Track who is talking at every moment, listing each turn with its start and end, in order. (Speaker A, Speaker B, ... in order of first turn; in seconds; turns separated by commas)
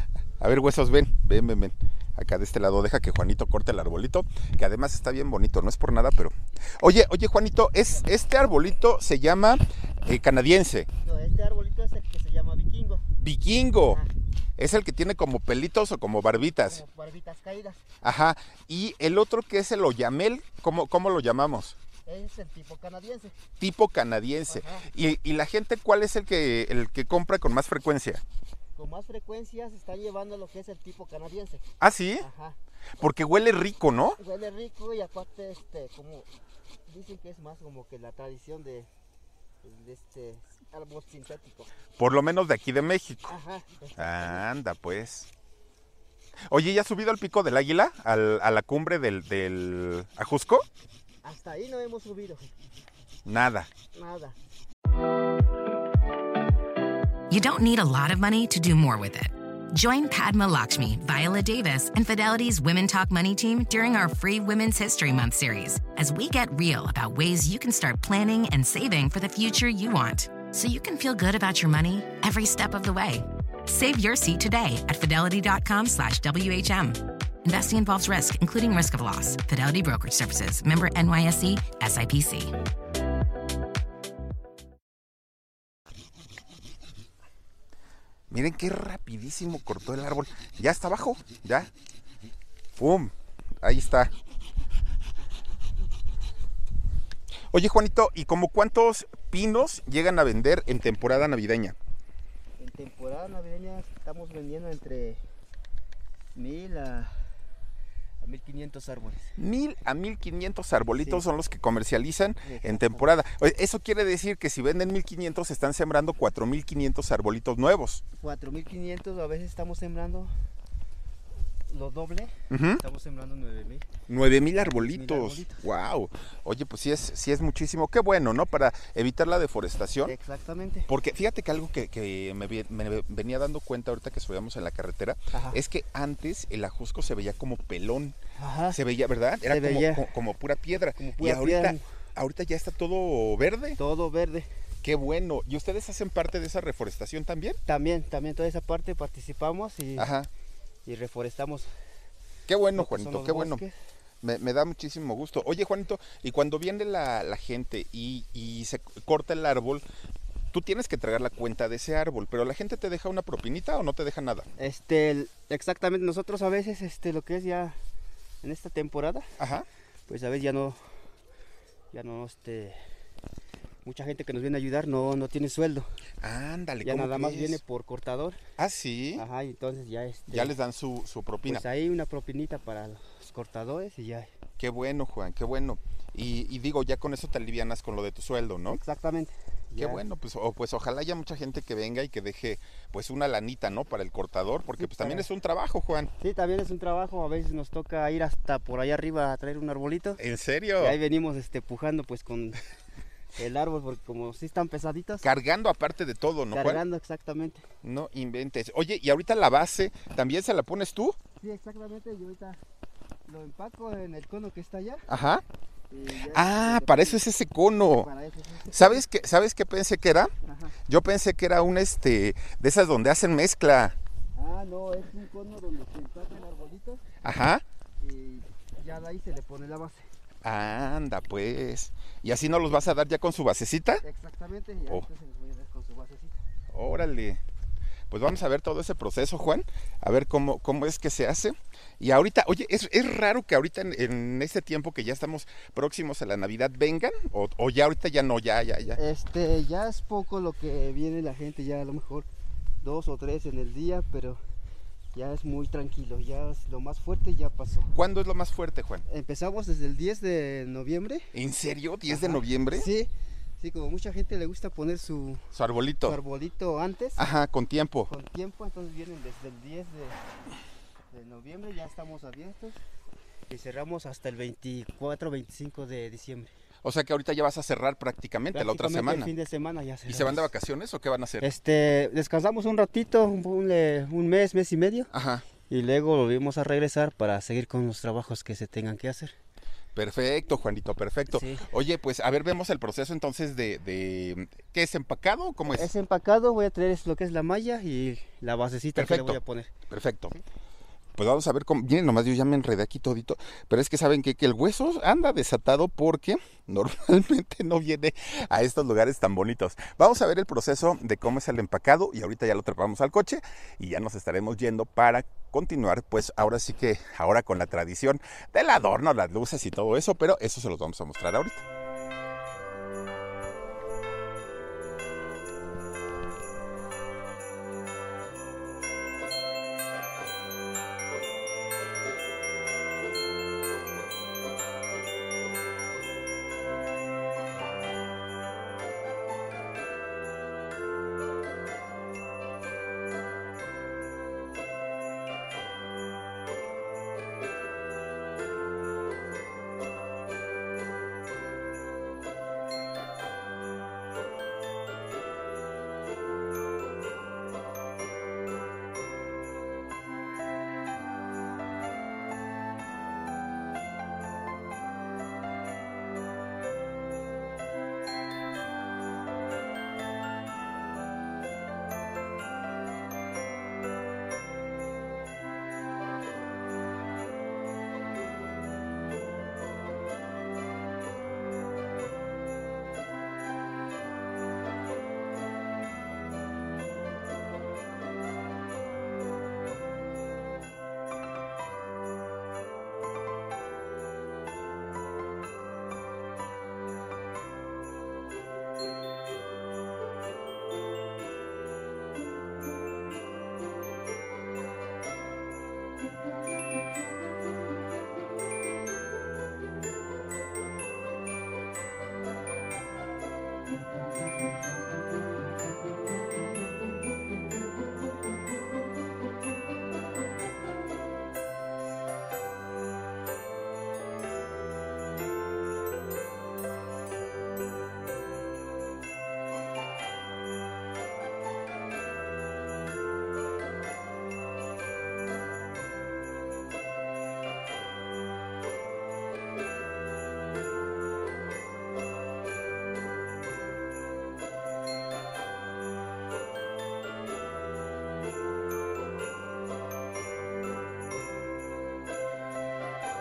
Speaker A: 0.4-10.9, Speaker B: 11.0-13.1, Speaker A: 13.2-14.0, Speaker A: 14.6-16.8, Speaker B: 16.6-17.8, Speaker A: 18.0-21.8, Speaker B: 22.1-23.4, Speaker A: 23.6-28.2, Speaker B: 24.5-24.9, Speaker B: 28.8-31.7, Speaker A: 31.8-32.3, Speaker B: 32.2-32.6, Speaker A: 33.0-34.2, Speaker B: 34.2-36.3, Speaker B: 36.9-38.9, Speaker B: 39.6-41.7, Speaker A: 42.0-43.4, Speaker B: 43.3-44.4, Speaker A: 44.0-45.3, Speaker A: 46.5-50.6, Speaker B: 51.2-52.5, Speaker A: 53.3-53.7, Speaker B: 53.9-54.4, Speaker C: 57.3-82.5, Speaker A: 88.3-91.7, Speaker A: 92.8-94.1, Speaker A: 97.5-101.8, Speaker B: 102.6-105.2, Speaker B: 106.3-107.2, Speaker B: 108.2-109.3, Speaker A: 109.4-118.0, Speaker B: 111.0-111.2, Speaker B: 112.5-113.2, Speaker B: 118.2-120.3, Speaker B: 121.7-123.9, Speaker A: 122.5-122.8, Speaker A: 124.1-130.1, Speaker B: 124.6-125.6, Speaker B: 130.1-130.9, Speaker A: 130.9-138.2, Speaker B: 135.3-135.6, Speaker B: 138.4-138.8, Speaker A: 138.7-143.8, Speaker B: 139.5-140.1, Speaker B: 140.9-141.8, Speaker B: 143.8-144.5, Speaker A: 144.8-147.6, Speaker B: 147.7-150.1, Speaker A: 150.0-150.3, Speaker B: 150.9-151.7, Speaker A: 152.5-153.6, Speaker B: 152.7-153.7, Speaker A: 154.2-159.8, Speaker A: 160.5-164.5, Speaker B: 164.6-167.8, Speaker B: 168.4-169.3, Speaker A: 169.4-169.7, Speaker B: 170.1-170.8, Speaker B: 171.9-172.8, Speaker B: 173.8-175.9, Speaker A: 176.2-177.6, Speaker B: 176.8-178.4, Speaker A: 178.6-179.2, Speaker B: 179.2-180.6, Speaker A: 180.3-181.6, Speaker B: 181.5-184.3, Speaker A: 184.6-188.8, Speaker B: 188.7-190.0, Speaker A: 189.8-196.1, Speaker B: 194.8-195.3, Speaker B: 196.2-200.2, Speaker A: 200.2-201.0, Speaker B: 200.8-202.6, Speaker B: 203.4-205.3, Speaker A: 205.2-206.8, Speaker B: 206.5-207.6, Speaker A: 207.8-211.2, Speaker B: 211.4-212.6, Speaker B: 213.3-215.1, Speaker A: 215.1-215.4, Speaker B: 215.9-217.2, Speaker A: 216.3-218.1, Speaker B: 218.0-219.0, Speaker A: 218.7-220.3, Speaker B: 220.4-220.8, Speaker A: 220.9-224.0, Speaker B: 224.3-227.0, Speaker A: 227.2-227.6, Speaker B: 228.0-230.1, Speaker A: 230.4-234.0, Speaker B: 234.0-236.4, Speaker A: 236.7-237.4, Speaker A: 238.1-249.0, Speaker B: 248.9-252.3, Speaker B: 252.8-254.4, Speaker B: 255.1-258.0, Speaker A: 257.9-259.1, Speaker B: 259.1-261.3, Speaker A: 261.3-262.9, Speaker B: 262.1-265.5, Speaker A: 265.5-266.2, Speaker B: 266.0-267.2, Speaker A: 267.2-268.1, Speaker B: 268.1-270.2, Speaker B: 271.1-272.8, Speaker B: 273.5-276.5, Speaker A: 276.8-279.3, Speaker B: 278.5-280.5, Speaker A: 280.1-281.5, Speaker B: 281.4-285.1, Speaker A: 285.1-285.4, Speaker B: 285.7-289.4, Speaker A: 289.9-295.9, Speaker B: 291.3-291.7, Speaker B: 295.7-299.7, Speaker A: 298.9-300.4, Speaker A: 301.2-321.6